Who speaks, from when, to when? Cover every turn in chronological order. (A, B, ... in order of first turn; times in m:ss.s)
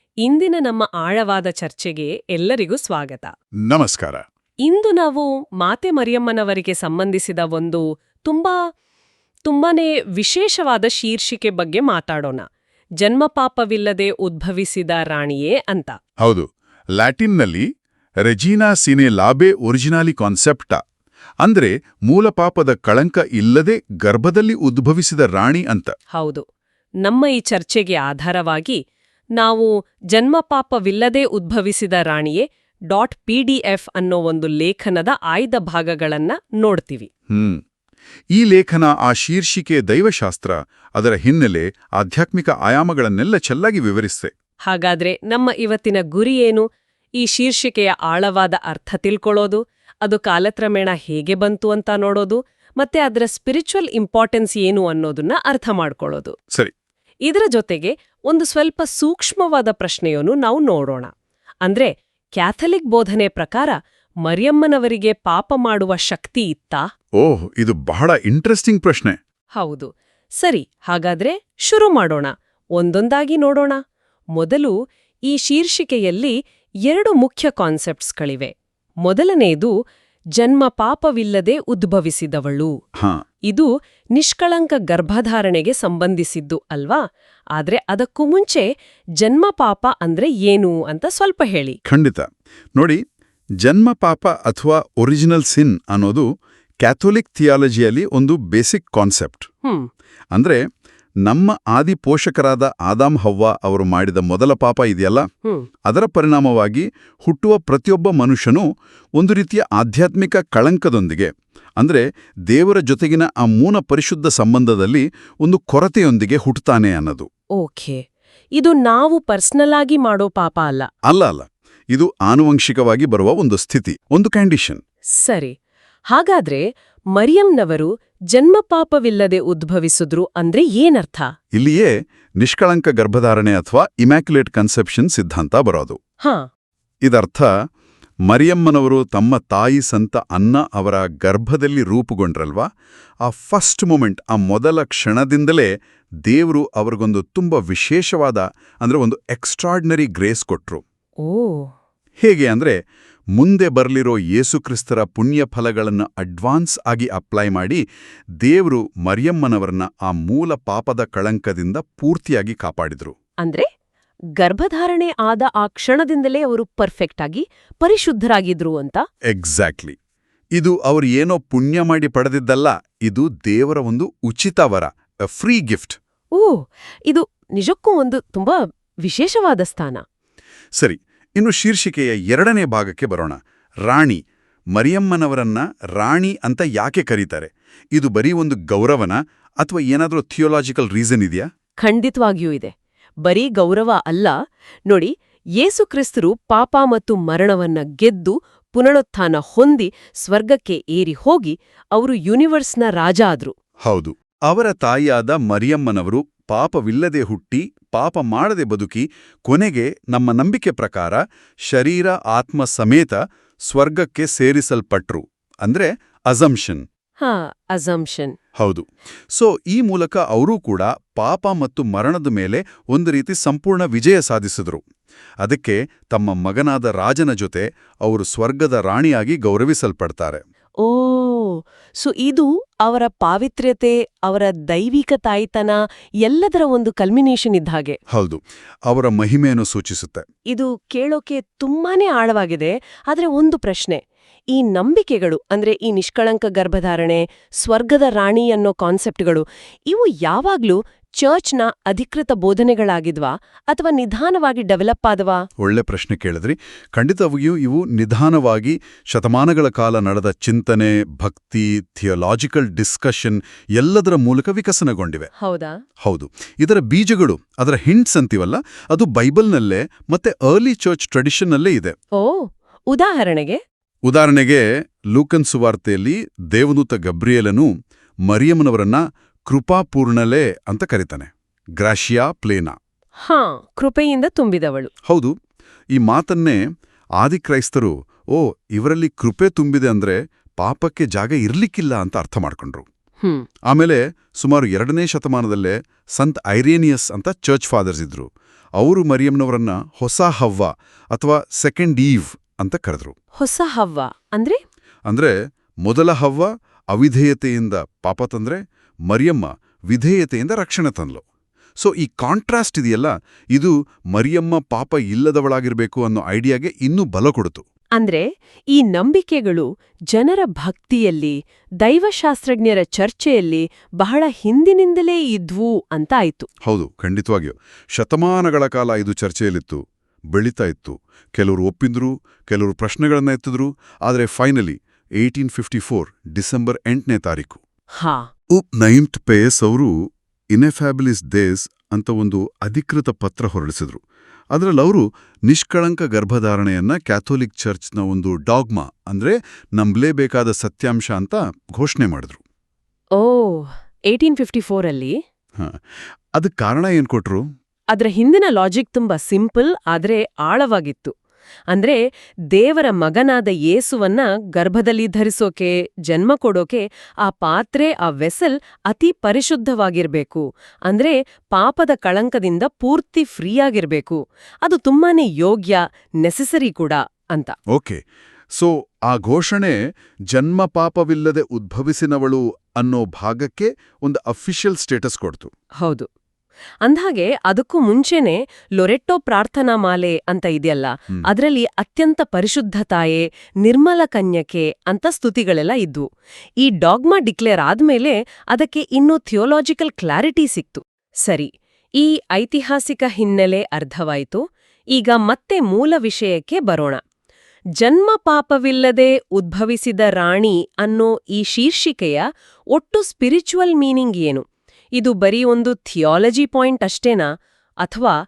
0:00.2-0:03.3 A
0:03.7-0:04.2 B
0:04.7-0:08.6 A
0:09.4-0:12.4 A
0:13.0-0:16.0 A
0:17.0-0:17.6 B
0:18.2-0:20.8 B
0:21.4-0:25.9 B
0:26.1-0:26.4 A
0:27.0-0:28.8 A
0:29.4-0:37.1 A
0:37.3-0:37.6 B
0:38.4-0:44.3 B
0:44.7-0:46.6 A
0:47.2-0:56.3 A
0:57.2-1:01.1 A
1:01.6-1:06.8 A
1:07.2-1:09.2 B
1:09.6-1:13.8 A
1:14.4-1:14.7 A
1:15.3-1:16.3 A
1:16.9-1:18.5 A
1:19.0-1:19.7 A
1:20.4-1:22.7 A
1:23.5-1:27.0 A
1:27.6-1:28.6 A
1:29.2-1:31.8 A
1:31.8-1:33.0 B
1:33.6-1:36.2 B
1:36.8-1:39.5 B
1:40.3-1:40.6 B
1:41.2-1:45.2 B
1:45.9-1:48.6 B
1:49.2-1:57.3 B
1:57.6-1:58.0 A
1:58.6-2:00.9 A
2:01.1-2:04.8 B
2:05.2-2:05.5 A
2:06.1-2:06.6 A
2:07.2-2:11.3 A
2:11.5-2:16.0 B
2:17.0-2:17.5 B
2:18.2-2:22.7 B
2:23.2-2:25.7 B
2:26.2-2:30.8 B
2:31.2-2:31.7 A
2:32.2-2:32.8 B
2:33.4-2:37.8 B
2:38.4-2:43.1 B
2:44.4-2:49.0 A
2:49.3-2:50.0 B
2:50.6-2:56.0 B
2:56.3-3:00.0 A
3:00.8-3:04.2 B
3:04.7-3:11.4 B
3:11.8-3:12.7 A
3:13.2-3:14.3 A
3:14.9-3:23.5 A
3:23.8-3:33.2 B
3:33.7-3:36.8 B
3:37.2-3:38.4 A
3:38.6-3:44.8 B
3:45.4-3:50.4 B
3:50.8-3:58.0 A
3:58.1-4:00.2 B
4:00.5-4:04.0 A
4:04.5-4:15.4 A
4:15.6-4:25.3 B
4:25.4-4:25.8 A
4:26.0-4:31.9 B
4:32.2-4:33.6 A
4:34.0-4:37.7 B
4:38.2-4:42.8 B
4:43.2-4:44.9 A
4:45.1-4:45.3 B
4:45.9-4:46.6 B
4:47.2-4:52.8 B
4:53.7-5:03.1 B
5:03.4-5:04.6 A
5:05.1-5:05.3 B
5:05.8-5:11.2 B
5:11.8-5:17.6 B
5:18.0-5:26.5 A
5:26.6-5:29.8 B
5:30.3-5:37.6 B
5:38.0-5:38.3 A
5:38.5-5:39.9 B
5:40.5-5:44.0 B
5:44.5-5:52.4 B
5:53.2-5:55.2 A
5:56.4-5:57.4 B
5:57.9-6:01.1 A
6:01.7-6:02.0 A
6:02.5-6:17.5 A
6:17.7-6:18.0 B
6:18.5-6:19.8 B
6:20.3-6:25.5 B
6:25.8-6:26.1 A
6:26.8-6:36.0 A
6:36.6-6:44.4 A
6:44.9-6:47.0 A
6:47.8-6:52.2 A
6:52.7-6:54.4 A
6:55.0-6:57.2 A
6:57.8-6:58.1 A